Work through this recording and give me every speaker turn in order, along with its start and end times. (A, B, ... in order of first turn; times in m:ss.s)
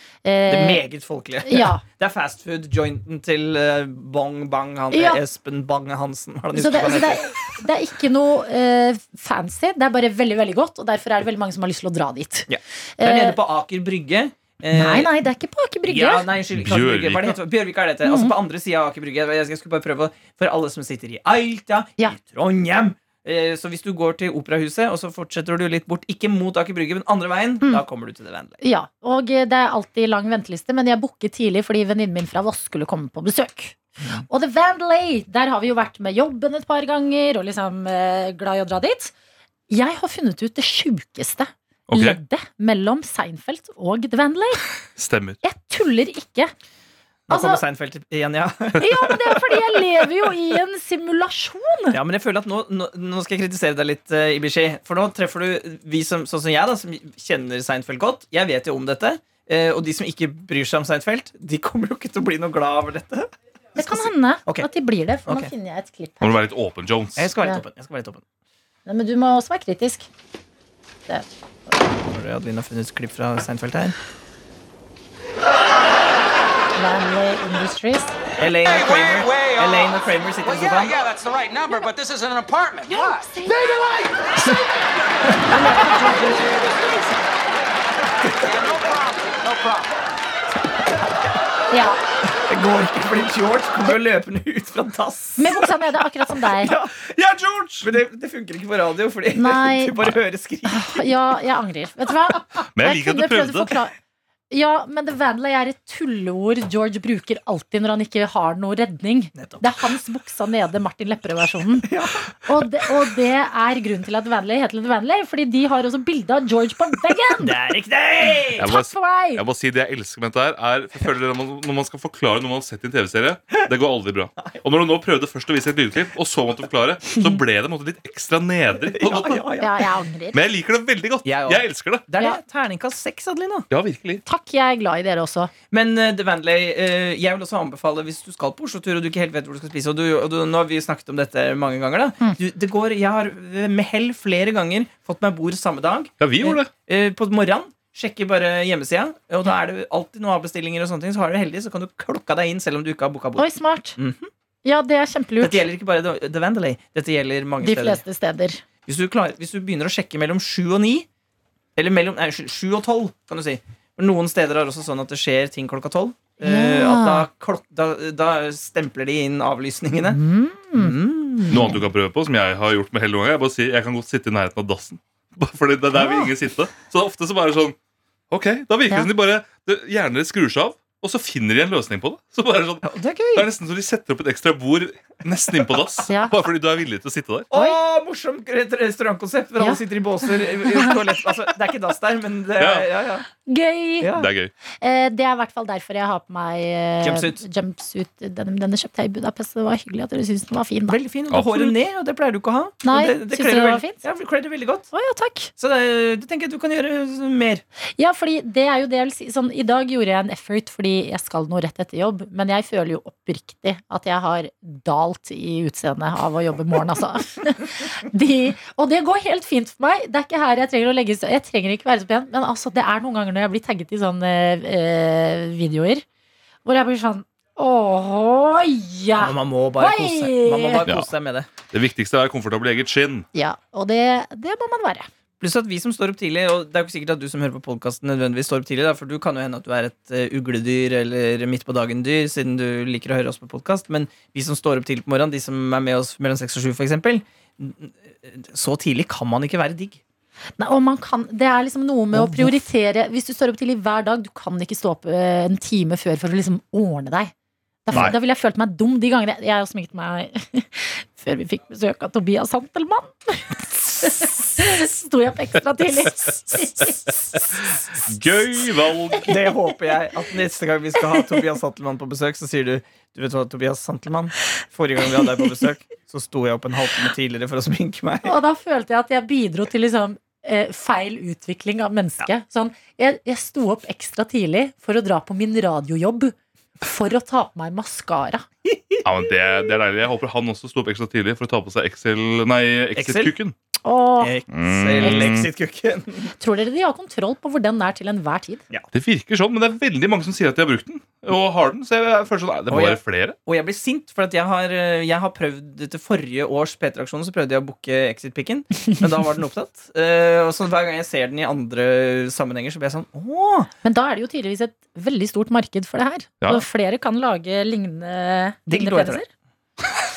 0:00.2-0:00.8 A
0:00.5-0:07.4 B
0:01.5-0:01.8 A
0:04.9-0:05.2 A
0:06.6-0:13.4 A
0:12.5-0:15.1 B
0:14.7-0:16.3 A
0:15.9-0:28.6 B
0:16.6-0:17.4 C
0:18.0-0:18.3 A
0:28.6-0:39.1 A
0:39.7-0:44.7 A
0:41.9-0:42.2 C
0:45.0-0:45.4 C
0:45.4-0:46.5 A
0:47.3-0:49.8 B
0:47.3-0:47.6 A
0:48.8-0:52.0 A
0:51.9-1:04.7 B
1:03.8-1:06.4 A
1:06.2-1:07.3 C
1:07.2-1:08.2 B
1:08.9-1:10.1 A
1:12.1-1:14.0 B
1:16.8-1:18.2 A
1:18.4-1:21.0 B
1:18.7-1:24.3 D
1:22.9-1:23.7 A
1:25.4-1:26.1 B
1:25.5-1:26.4 A
1:28.4-1:29.9 D
1:31.7-1:32.0 A
1:32.5-1:35.8 B
1:35.4-1:36.7 A
1:36.4-1:37.1 B
1:37.1-1:37.9 C
1:37.8-1:41.1 B
1:39.3-1:40.0 A
1:40.7-1:43.9 A
1:42.7-1:43.7 C
1:44.5-1:51.9 A
1:49.4-1:49.7 B
1:51.9-1:52.3 B
1:52.4-1:57.6 A
1:57.4-1:58.7 B
1:58.6-2:09.4 C
1:58.6-1:59.4 A
2:08.9-2:09.9 B
2:09.6-2:10.4 A
2:10.3-2:12.0 C
2:11.2-2:13.7 B
2:13.7-2:14.2 C
2:14.3-2:15.5 A
2:15.7-2:34.3 B
2:26.2-2:26.7 C
2:33.4-2:34.0 A
2:34.6-2:35.6 A
2:35.4-2:38.0 B
2:37.6-2:38.6 A
2:38.9-2:41.1 B
2:41.8-2:50.2 B
2:46.4-2:47.3 A
2:50.1-2:51.0 A
2:50.8-2:51.7 B
2:51.5-2:57.8 C
2:58.3-3:07.5 C
3:02.8-3:03.5 B
3:06.1-3:06.3 A
3:07.5-3:13.3 B
3:12.6-3:12.9 C
3:13.5-3:14.1 A
3:14.0-3:14.3 B
3:14.1-3:14.5 C
3:14.8-3:21.0 A
3:17.0-3:17.4 B
3:20.9-3:24.9 B
3:21.3-3:21.8 C
3:22.8-3:24.0 A
3:24.9-3:25.5 A
3:25.6-3:27.6 B
3:28.0-3:46.0 A
3:46.6-3:50.9 A
3:49.2-3:51.5 B
3:51.7-3:53.3 C
3:53.3-3:55.1 A
3:55.4-4:10.0 B
4:10.6-4:17.3 A
4:12.1-4:12.6 B
4:17.9-4:27.7 A
4:27.6-4:29.4 C
4:29.2-4:38.4 B
4:38.2-4:48.4 A
4:48.7-4:49.0 B
4:49.0-4:53.6 C
4:53.0-4:53.3 B
4:53.8-4:54.3 A
4:54.2-4:56.3 B
4:54.5-4:55.5 C
4:56.4-4:58.6 A
4:58.9-5:03.4 C
5:02.7-5:13.7 B
5:13.8-5:19.3 A
5:18.7-5:19.2 B